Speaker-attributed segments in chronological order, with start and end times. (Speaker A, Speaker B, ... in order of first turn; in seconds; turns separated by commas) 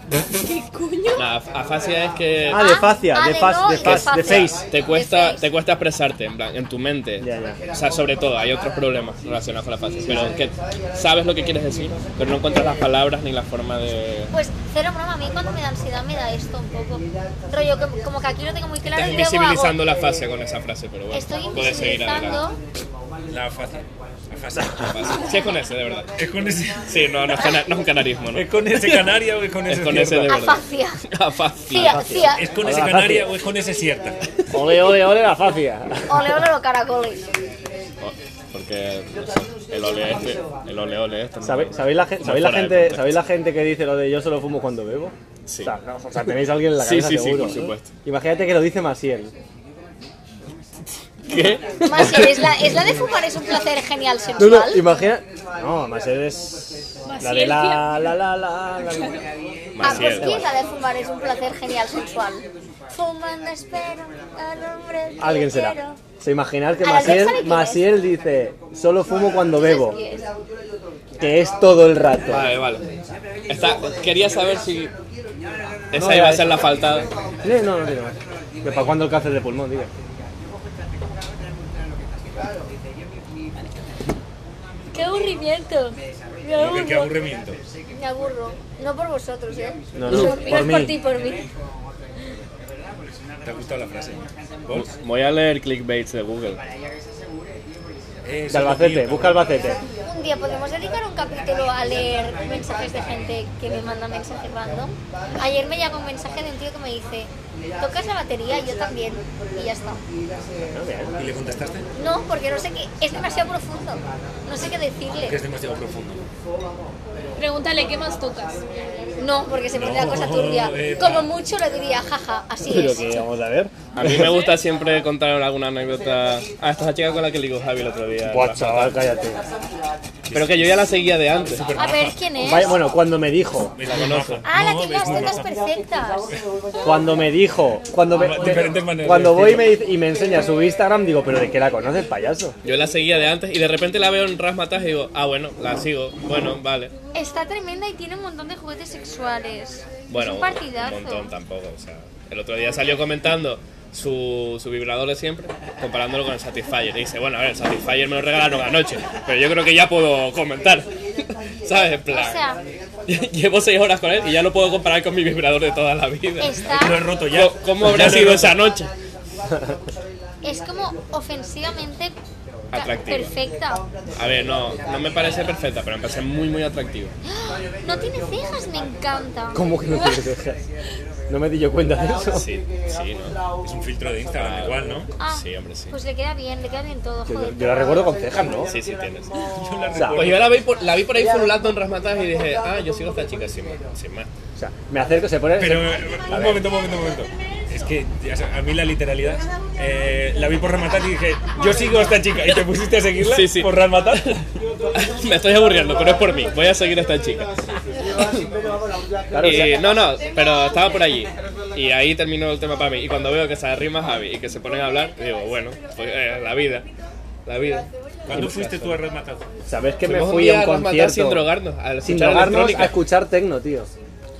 Speaker A: 0.4-1.2, Speaker B: 1.1-2.7, Speaker C: 2.5-4.6, Speaker D: 2.5-5.5, Speaker B: 3.8-14.3, Speaker C: 7.2-7.6, Speaker C: 10.0-10.4, Speaker D: 14.3-19.8, Speaker B: 18.8-22.4, Speaker D: 21.1-22.6, Speaker E: 23.3-25.2, Speaker B: 24.7-26.1, Speaker E: 26.2-27.0, Speaker B: 26.9-29.1, Speaker E: 28.3-30.4, Speaker B: 29.7-32.0, Speaker D: 30.3-31.0, Speaker D: 31.7-32.5, Speaker C: 31.7-33.3, Speaker E: 32.2-34.2, Speaker C: 34.5-36.4, Speaker D: 36.1-37.2, Speaker B: 38.0-43.2, Speaker C: 41.4-49.3, Speaker B: 45.5-45.7, Speaker B: 46.8-47.9, Speaker B: 51.2-52.5, Speaker D: 51.8-54.9, Speaker C: 54.4-59.2, Speaker A: 57.1-58.1, Speaker A: 58.9-59.2, Speaker B: 59.7-60.4, Speaker D: 59.8-66.0, Speaker C: 59.8-60.5, Speaker C: 65.2-70.0, Speaker D: 66.8-67.9, Speaker D: 69.5-70.2, Speaker C: 71.2-72.5, Speaker B: 72.3-72.8, Speaker B: 73.5-74.9, Speaker B: 75.9-77.1, Speaker C: 75.9-76.6, Speaker C: 77.4-79.9, Speaker D: 84.9-87.2, Speaker E: 86.5-87.6, Speaker D: 87.9-91.5, Speaker C: 89.9-91.0, Speaker E: 93.4-94.9, Speaker B: 94.7-96.6, Speaker E: 98.2-99.7, Speaker C: 98.5-99.8, Speaker D: 100.0-110.0, Speaker C: 110.7-111.2, Speaker E: 111.2-111.9, Speaker D: 112.0-115.4, Speaker E: 115.1-116.2, Speaker A: 117.3-118.6, Speaker D: 119.2-123.1, Speaker E: 119.7-121.3, Speaker C: 122.6-124.3, Speaker B: 123.9-129.0, Speaker C: 128.2-129.4, Speaker E: 130.3-132.2, Speaker B: 130.3-131.7, Speaker D: 131.7-132.7, Speaker C: 132.4-133.8, Speaker E: 133.8-135.5, Speaker B: 133.8-134.5, Speaker D: 134.4-136.3, Speaker C: 136.8-142.5, Speaker E: 138.1-139.8, Speaker B: 142.6-146.9, Speaker D: 147.1-151.3, Speaker B: 150.1-160.9, Speaker B: 161.6-162.4, Speaker D: 162.1-162.6, Speaker B: 163.1-166.6, Speaker D: 166.4-167.1, Speaker E: 166.6-168.6, Speaker B: 167.3-168.9, Speaker D: 170.4-172.1, Speaker B: 172.7-173.3, Speaker D: 172.7-173.8, Speaker B: 174.1-177.1, Speaker D: 177.2-179.7, Speaker C: 179.5-180.6, Speaker C: 181.3-182.5, Speaker B: 182.3-183.4, Speaker E: 183.6-185.1, Speaker B: 184.3-185.9, Speaker D: 185.2-188.1, Speaker C: 187.3-188.7, Speaker B: 188.7-189.3, Speaker E: 189.5-190.6, Speaker C: 189.9-190.2, Speaker B: 190.1-194.3, Speaker C: 194.6-196.7, Speaker E: 195.6-204.4, Speaker B: 203.2-204.2, Speaker B: 204.9-207.6, Speaker B: 208.2-208.4, Speaker C: 209.3-209.7, Speaker B: 209.4-216.9, Speaker B: 217.4-219.0, Speaker E: 218.2-219.4, Speaker C: 219.7-221.5, Speaker B: 220.0-223.0, Speaker C: 222.0-223.9